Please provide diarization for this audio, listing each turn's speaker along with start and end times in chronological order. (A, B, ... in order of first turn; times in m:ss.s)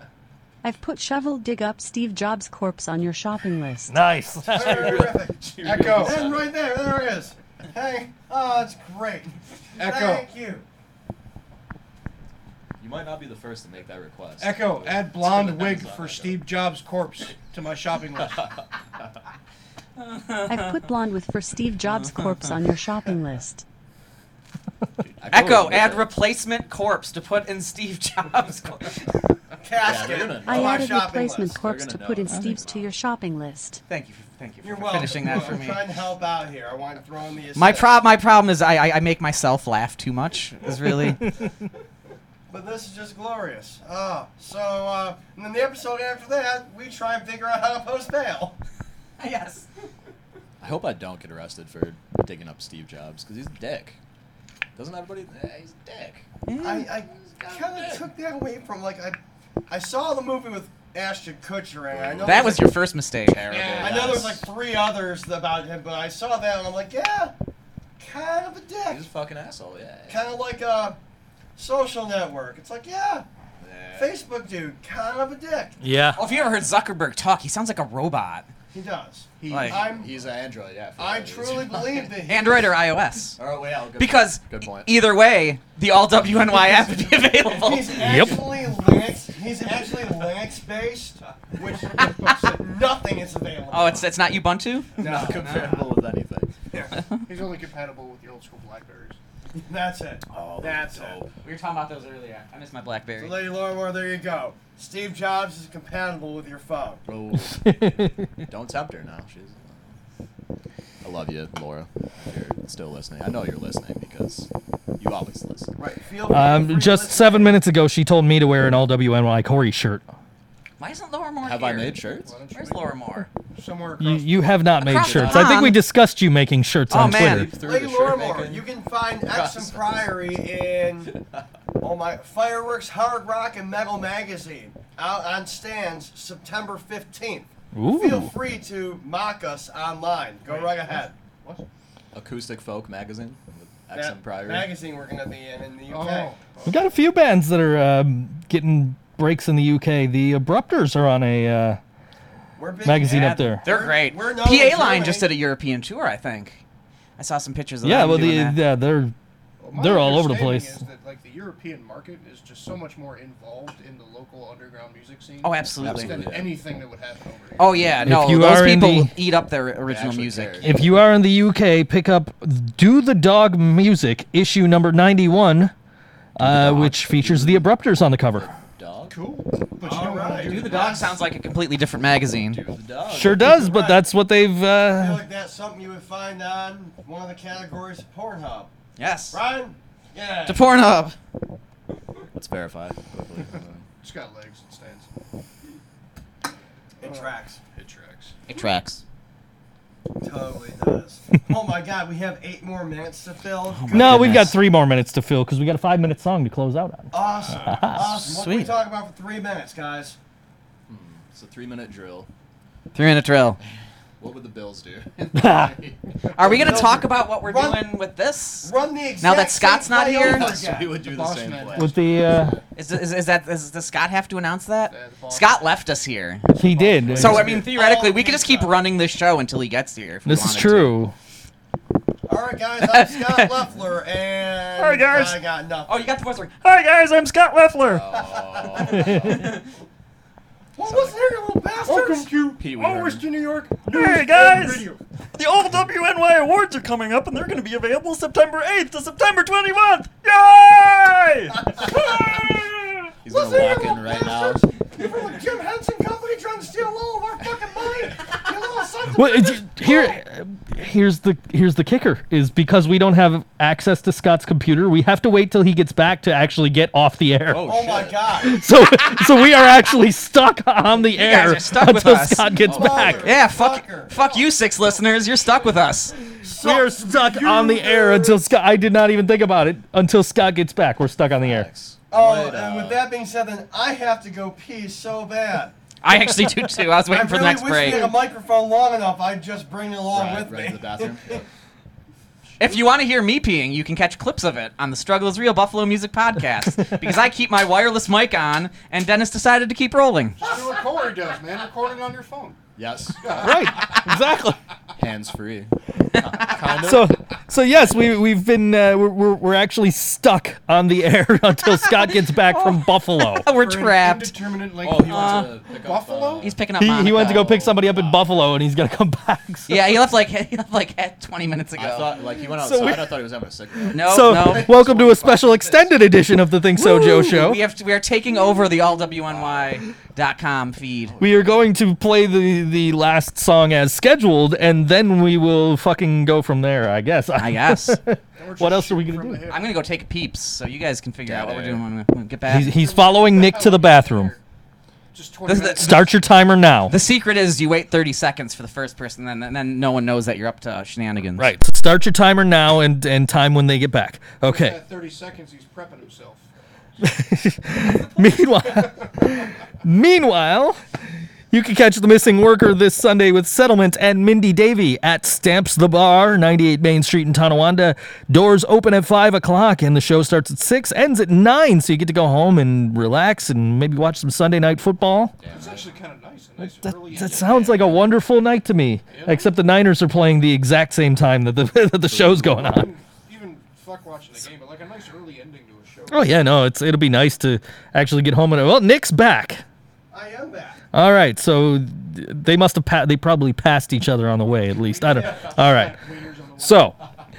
0:00.6-0:04.0 A
0:03.9-0:04.8 B
0:04.5-0:10.6 C
0:04.5-0:06.6 D
0:05.6-0:06.1 E
0:09.8-0:10.2 E
0:12.8-0:16.5 D
0:14.4-0:18.5 E
0:18.2-0:18.6 D
0:20.0-0:20.8 F
0:20.4-0:23.6 A
0:25.0-0:26.2 D
0:25.3-0:29.2 F
0:25.3-0:25.6 B
0:29.6-0:31.6 C
0:29.8-0:33.0 D
0:30.3-0:33.8 A
0:33.9-0:35.8 F
0:34.6-0:38.0 C
0:37.6-0:41.2 F
0:42.5-0:48.6 C
0:49.2-0:49.7 F
0:50.6-0:54.0 D
0:54.8-0:56.3 D
0:56.4-0:56.9 F
0:56.6-0:59.2 C
0:56.9-0:58.1 D
0:59.7-1:02.7 C
1:01.9-1:02.6 D
1:02.2-1:03.9 F
1:03.2-1:04.5 D
1:03.5-1:04.3 E
1:03.8-1:07.3 C
1:08.0-1:09.0 C
1:08.8-1:10.2 D
1:10.1-1:11.0 C
1:11.6-1:13.2 C
1:13.6-1:14.2 D
1:13.9-1:15.8 C
1:15.8-1:16.2 B
1:16.2-1:18.5 F
1:18.7-1:20.1 C
1:19.4-1:20.1 E
1:19.5-1:19.8 F
1:19.7-1:22.1 D
1:21.0-1:22.7 C
1:22.2-1:23.4 F
1:23.4-1:25.1 D
1:24.0-1:28.2 F
1:26.3-1:27.2 D
1:27.4-1:34.1 C
1:28.0-1:28.4 B
1:32.0-1:32.4 F
1:33.7-1:35.8 F
1:35.0-1:35.8 C
1:35.0-1:36.6 D
1:36.7-1:39.2 E
1:39.6-1:41.2 C
1:40.3-1:41.3 D
1:41.4-1:43.4 F
1:43.2-1:47.0 C
1:47.0-1:50.0 D
1:47.6-1:48.4 B
1:51.0-1:55.7 D
1:55.8-1:57.6 C
1:56.3-2:00.0 B
2:00.8-2:02.0 F
2:01.4-2:02.4 D
2:02.1-2:03.0 E
2:02.5-2:03.3 F
2:03.5-2:04.7 E
2:04.0-2:07.5 B
2:04.8-2:05.8 F
2:05.1-2:05.5 D
2:06.9-2:07.5 F
2:06.9-2:10.1 D
2:07.5-2:11.1 C
2:11.1-2:11.4 D
2:11.8-2:21.1 C
2:17.7-2:18.3 B
2:20.4-2:21.6 E
2:22.1-2:24.7 D
2:23.9-2:26.3 C
2:25.9-2:26.9 E
2:26.6-2:31.8 B
2:32.6-2:35.3 C
2:32.8-2:33.6 B
2:33.1-2:36.6 F
2:37.2-2:38.6 F
2:37.8-2:39.1 B
2:39.6-2:48.1 E
2:39.7-2:40.8 B
2:45.4-2:46.2 F
2:45.8-2:46.7 D
2:47.6-2:50.7 F
2:48.0-2:49.1 B
2:49.8-2:51.1 D
2:50.6-2:55.7 B
2:56.4-2:58.5 B
2:56.4-2:57.8 D
2:58.3-2:59.2 D
2:59.1-3:01.1 E
2:59.8-3:01.2 C
3:00.4-3:02.6 F
3:02.5-3:03.6 D
3:03.1-3:05.2 B
3:03.4-3:04.0 C
3:04.9-3:08.7 C
3:09.0-3:09.4 F
3:09.3-3:10.7 C
3:10.4-3:11.2 F
3:12.3-3:13.8 D
3:14.0-3:15.1 E
3:17.0-3:17.6 C
3:17.0-3:18.4 E
3:18.5-3:19.0 F
3:20.2-3:24.5 C
3:23.7-3:24.6 F
3:23.9-3:28.0 B
3:27.1-3:30.2 C
3:28.0-3:28.8 F
3:30.9-3:32.3 D
3:32.9-3:33.6 F
3:34.2-3:37.0 D
3:35.3-3:35.8 B
3:36.3-3:40.5 F
3:36.5-3:37.9 C
3:38.6-3:41.0 C
3:40.1-3:42.6 D
3:40.5-3:42.4 E
3:41.7-3:42.6 B
3:42.7-3:46.4 F
3:44.9-3:45.7 E
3:46.5-3:47.4 E
3:46.6-3:47.6 B
3:47.1-3:47.6 D
3:47.2-3:51.0 F
3:47.4-3:48.8 C
3:50.2-3:51.1 B
3:52.3-3:56.1 C
3:52.9-3:53.5 F
3:54.8-3:55.3 B
3:55.9-3:56.5 F
3:56.6-3:58.0 B
3:57.8-3:59.6 D
3:58.2-3:59.1 C
3:59.3-3:59.6 F
4:00.8-4:02.3 C
4:01.8-4:05.0 E
4:02.6-4:03.3 D
4:03.9-4:04.8 B
4:05.4-4:11.6 B
4:13.2-4:14.7 D
4:13.2-4:20.2 C
4:19.1-4:27.8 B
4:27.5-4:28.4 D
4:27.6-4:28.6 C
4:28.4-4:33.3 B
4:31.1-4:36.1 F
4:32.6-4:34.2 C
4:32.6-4:33.3 D
4:36.4-4:38.5 C
4:36.6-4:41.7 B
4:41.4-4:43.0 D
4:42.1-4:45.7 C
4:46.0-4:48.1 F
4:47.1-4:51.4 C
4:50.1-4:51.5 D
4:52.6-5:00.4 F
5:00.4-5:02.6 E
5:02.8-5:03.9 D
5:03.2-5:03.8 E
5:03.4-5:04.6 B
5:05.0-5:08.1 D
5:06.7-5:13.5 B
5:11.8-5:14.4 F
5:13.4-5:16.6 E
5:14.8-5:16.6 D
5:15.0-5:15.5 F
5:16.4-5:17.7 F
5:16.7-5:19.8 B
5:17.8-5:18.1 D
5:19.7-5:22.2 F
5:21.7-5:25.9 D
5:22.4-5:23.2 B
5:23.8-5:27.6 B
5:23.9-5:24.8 F
5:26.8-5:31.2 F
5:29.2-5:29.8 D
5:31.1-5:31.6 D
5:31.2-5:39.4 B
5:37.4-5:38.0 F
5:38.4-5:39.8 E
5:39.5-5:42.7 F
5:41.2-5:41.8 D
5:42.5-5:44.3 B
5:42.6-5:44.4 E
5:45.1-5:46.2 E
5:45.5-5:46.0 F
5:45.7-5:46.9 B
5:46.9-5:51.5 F
5:51.4-5:54.8 B
5:54.4-5:56.4 E
5:57.0-6:00.8 B
6:01.5-6:15.4 B
6:15.4-6:16.0 D
6:15.5-6:18.1 E
6:16.6-6:22.9 B
6:17.4-6:17.7 D
6:19.1-6:19.6 E
6:22.1-6:22.7 D
6:22.4-6:26.4 E
6:26.1-6:29.6 B
6:30.1-6:30.8 C
6:30.9-6:36.0 B
6:34.7-6:37.0 E
6:36.6-6:37.0 B